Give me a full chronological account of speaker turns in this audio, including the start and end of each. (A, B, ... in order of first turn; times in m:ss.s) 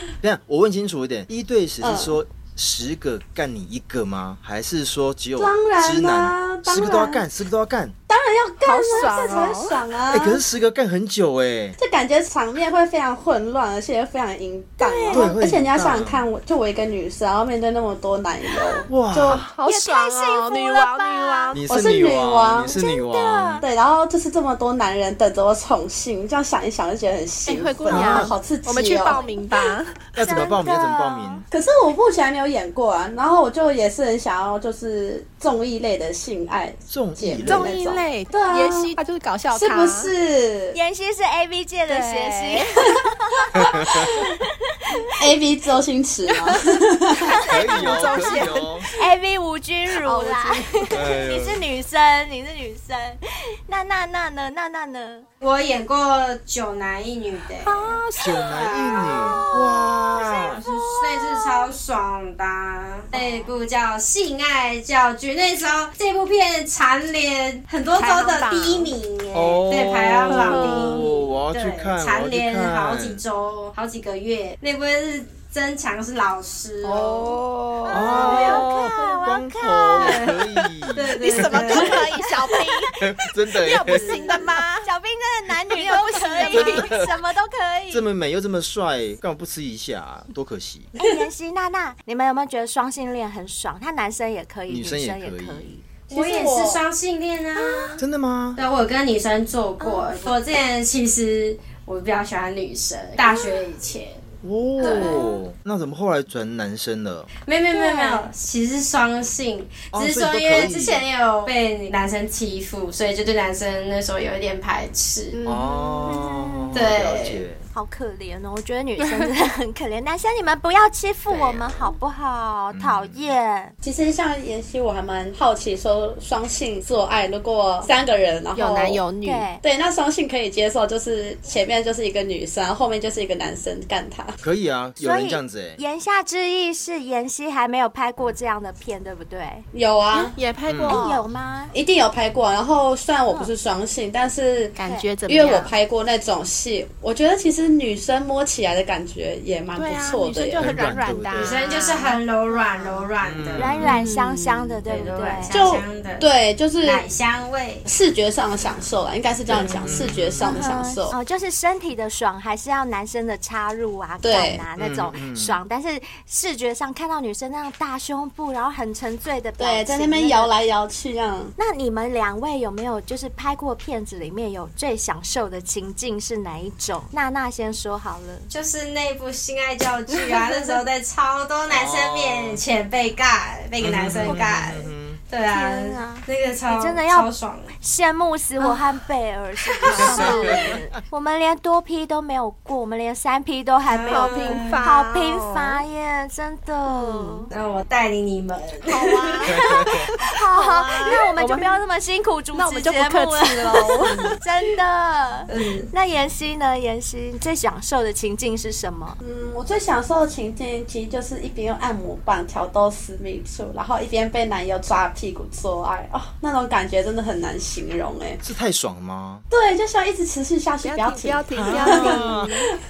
0:00.2-0:08.0 A
0:01.8-0:02.2 B
0:05.4-0:07.2 B
0:08.1-0:10.4 B
0:08.6-0:09.8 C
0:10.1-0:11.8 A
0:11.8-0:19.4 B
0:14.8-0:15.3 D
0:15.1-0:16.3 A
0:18.9-0:19.5 A
0:19.3-0:21.7 C
0:19.6-0:21.6 D
0:21.5-0:23.6 A
0:21.7-0:22.8 B
0:22.7-0:23.7 D
0:23.6-0:29.2 B
0:27.4-0:30.1 C
0:27.9-0:28.3 A
0:29.0-0:29.5 D
0:30.2-0:31.5 A
0:30.2-0:31.4 D
0:31.5-0:39.0 B
0:36.9-0:37.8 A
0:37.4-0:40.1 C
0:39.5-0:40.8 B
0:40.7-0:45.3 D
0:41.9-0:42.8 C
0:43.6-0:44.1 A
0:45.2-0:47.3 B
0:47.2-0:48.9 C
0:47.3-0:55.3 D
0:47.5-0:48.9 A
0:49.9-0:51.2 C
0:50.9-0:51.6 A
0:55.4-0:59.4 E
0:57.6-0:59.3 C
0:58.2-1:00.6 A
0:59.2-1:01.7 D
1:00.2-1:17.4 E
1:03.1-1:03.5 D
1:07.9-1:09.0 C
1:09.3-1:13.2 A
1:10.3-1:11.1 C
1:16.8-1:18.6 C
1:17.9-1:21.8 A
1:17.9-1:20.2 D
1:18.0-1:18.5 E
1:20.0-1:20.4 E
1:21.0-1:22.0 E
1:21.2-1:24.9 C
1:21.8-1:22.8 D
1:23.0-1:24.2 A
1:23.9-1:24.4 E
1:24.0-1:28.0 D
1:25.6-1:27.0 C
1:26.5-1:27.1 A
1:27.9-1:30.9 A
1:31.0-1:35.8 D
1:34.7-1:35.7 A
1:36.1-1:38.0 E
1:36.1-1:36.8 B
1:37.6-1:38.0 D
1:38.0-1:38.6 A
1:38.6-1:44.2 E
1:39.8-1:40.3 D
1:43.2-1:43.6 D
1:44.4-1:47.3 A
1:44.8-1:45.2 E
1:47.5-1:55.4 E
1:47.7-1:48.3 D
1:49.9-1:51.1 A
1:55.3-1:56.7 C
1:55.5-1:57.7 A
1:56.7-1:57.4 E
1:57.7-2:03.8 D
2:01.3-2:01.7 A
2:02.7-2:03.3 A
2:03.8-2:09.1 B
2:08.6-2:09.5 C
2:09.2-2:09.6 D
2:09.6-2:14.4 B
2:14.4-2:15.8 A
2:15.0-2:19.7 D
2:19.7-2:20.4 B
2:20.1-2:21.3 C
2:20.7-2:21.0 A
2:20.9-2:21.7 D
2:21.7-2:30.8 B
2:24.8-2:25.8 C
2:29.8-2:32.2 C
2:30.6-2:31.6 A
2:31.4-2:33.7 E
2:32.8-2:35.6 D
2:33.2-2:33.9 A
2:33.7-2:34.8 C
2:34.8-2:36.3 E
2:35.5-2:37.0 B
2:36.8-2:37.9 E
2:37.9-2:41.2 B
2:39.5-2:40.6 A
2:40.4-2:50.5 D
2:44.2-2:44.6 B
2:44.8-2:45.6 A
2:49.6-2:51.5 B
2:51.6-2:58.5 D
2:58.5-3:07.7 E
3:00.1-3:00.8 C
3:01.7-3:02.6 A
3:03.8-3:05.2 A
3:05.5-3:07.3 D
3:07.8-3:17.5 D
3:08.6-3:08.9 C
3:09.8-3:10.7 C
3:09.9-3:11.0 A
3:13.9-3:14.9 E
3:14.1-3:15.8 C
3:16.9-3:17.5 C
3:17.5-3:19.4 E
3:18.9-3:21.8 C
3:19.4-3:29.2 D
3:19.5-3:20.0 A
3:22.6-3:24.4 C
3:24.0-3:24.4 E
3:25.5-3:25.9 E
3:29.2-3:38.4 B
3:38.4-3:39.4 A
3:39.5-3:42.3 B
3:40.8-3:42.8 C
3:41.5-3:42.6 A